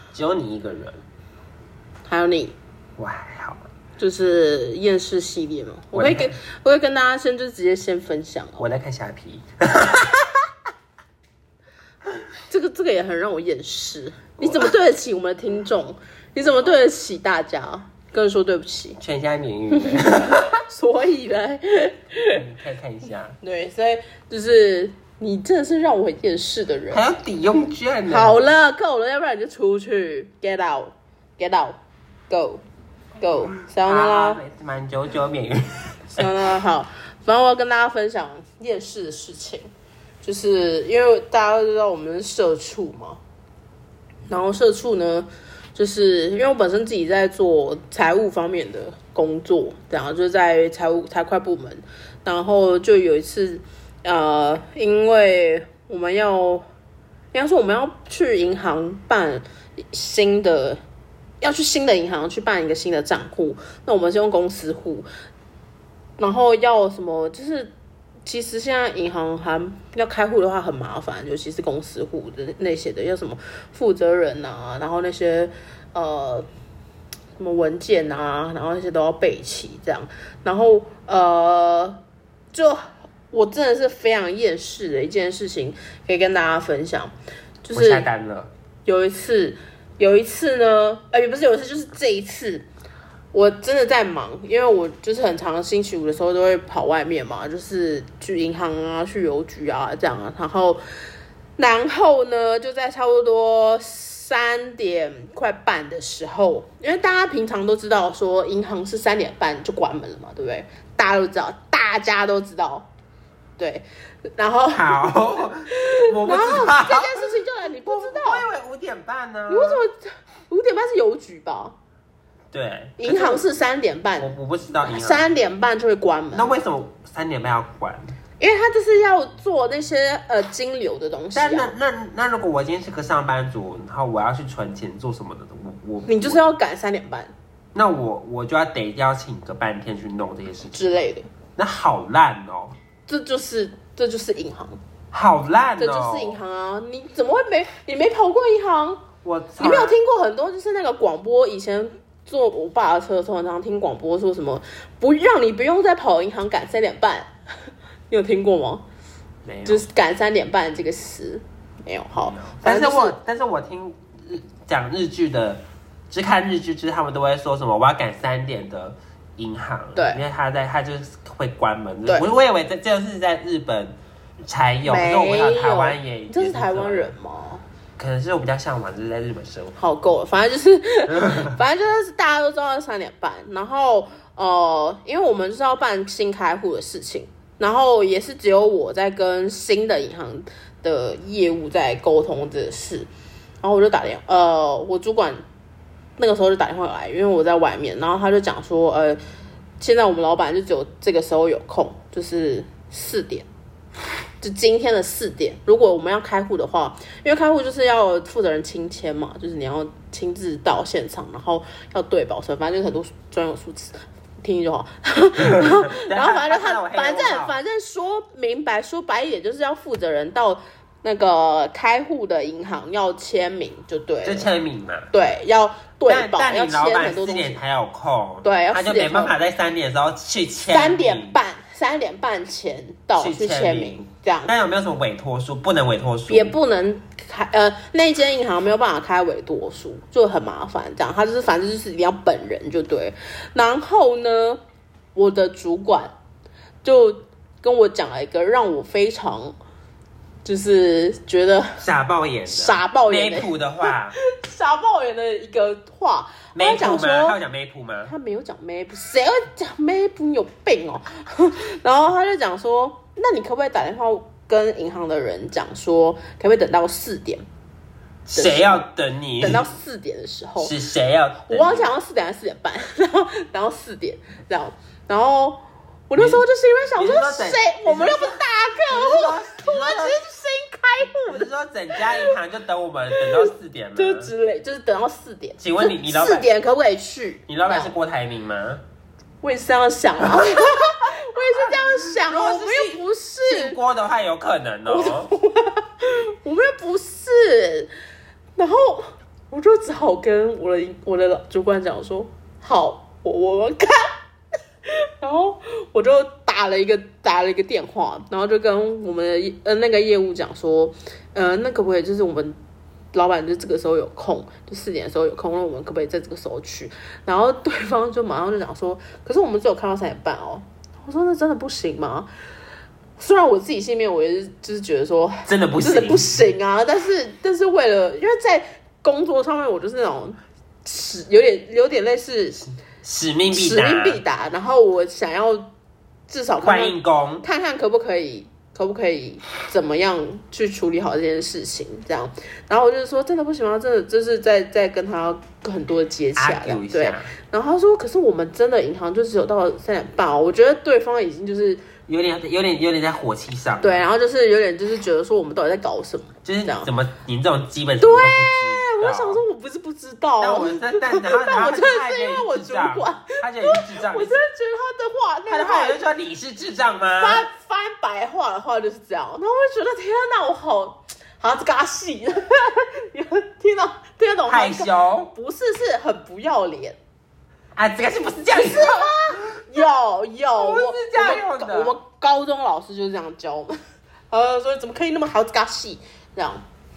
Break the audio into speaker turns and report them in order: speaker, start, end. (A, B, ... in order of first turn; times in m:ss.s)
0:00.1-0:01.0 A
0:02.0-0:02.5 B
0:03.0-0:03.6 A
0:04.0-0:08.7 B
0:05.9-0:06.3 A
0:08.6-0:10.4 A
0:12.5-0:19.0 B
0:14.4-0:14.7 A
0:19.0-0:20.5 A
0:19.7-0:22.4 B
0:22.3-0:23.4 A
0:23.4-0:27.0 B
0:26.9-0:28.4 A
0:28.1-0:32.6 B
0:33.2-0:34.4 B
0:33.8-0:36.3 A
0:36.2-0:39.7 B
0:40.2-0:43.2 B
0:44.3-0:56.6 B
0:57.3-1:00.8 B
1:01.4-1:05.1 B
1:06.2-1:07.7 B
1:08.2-1:16.5 B
1:17.4-1:22.0 B
1:22.5-1:27.1 B
1:27.6-1:28.1 B
1:27.7-1:28.5 A
1:28.8-1:32.7 B
1:33.3-1:40.8 B
1:41.6-1:52.9 B
1:53.6-1:53.8 B
1:54.4-1:58.5 B
1:54.7-1:57.3 A
1:57.8-1:59.8 A
1:59.5-2:01.8 B
2:02.5-2:03.4 A
2:03.0-2:06.6 B
2:04.2-2:05.2 A
2:06.3-2:08.1 A
2:08.4-2:11.7 B
2:11.3-2:16.5 A
2:16.1-2:17.3 B
2:17.8-2:20.9 A
2:20.7-2:21.3 B
2:21.6-2:22.8 A
2:23.1-2:24.8 B
2:25.1-2:26.4 A
2:25.8-2:29.1 B
2:29.2-2:30.0 A
2:29.6-2:37.3 B
2:38.1-2:38.8 B
2:39.4-2:39.8 A
2:39.6-2:43.2 B
2:42.1-2:57.1 A
2:49.9-2:50.2 B
2:54.8-2:57.6 B
2:58.0-2:59.8 A
2:59.8-3:13.1 B
3:01.2-3:01.5 A
3:13.6-3:15.4 B
3:16.2-3:19.2 B
3:19.8-3:23.5 B
3:24.4-3:44.5 B
3:35.5-3:37.6 A
3:44.2-3:45.1 A
3:45.1-3:47.6 B
3:46.1-3:51.4 A
3:48.4-3:49.4 B
3:50.7-3:54.5 B
3:53.2-3:56.5 A
3:56.3-4:04.6 B
4:05.1-4:06.1 B
4:06.8-4:09.6 B
4:10.4-4:11.8 B
4:11.8-4:14.2 A
4:12.5-4:17.4 B
4:16.6-4:18.1 A
4:18.0-4:27.4 B
4:28.2-4:29.6 A
4:28.4-4:28.8 B
4:29.4-4:30.7 B
4:30.6-4:31.9 A
4:31.5-4:42.4 B
4:36.2-4:36.4 A
4:37.0-4:40.2 A
4:41.2-4:44.3 A
4:43.1-4:47.9 B
4:45.6-4:46.5 A
4:47.5-4:48.8 A
4:49.4-4:53.8 B
4:52.1-4:55.3 A
4:54.9-4:57.9 B
4:58.6-5:04.1 B
5:05.2-5:12.6 B
5:13.1-5:22.3 B
5:23.2-5:32.7 B
5:25.4-5:26.3 A
5:33.0-5:34.2 A
5:33.5-5:35.7 B
5:36.3-5:51.9 B
5:36.6-5:37.4 A
5:46.4-5:47.3 A
5:52.1-5:54.0 A
5:53.8-5:56.9 B
5:56.4-5:59.4 A
5:58.0-6:06.0 B
6:00.4-6:04.4 A
6:05.5-6:07.4 A
6:07.2-6:17.0 B
6:14.5-6:15.3 A
6:17.8-6:19.4 A
6:18.5-6:23.8 B
6:20.6-6:21.9 A
6:24.3-6:26.6 B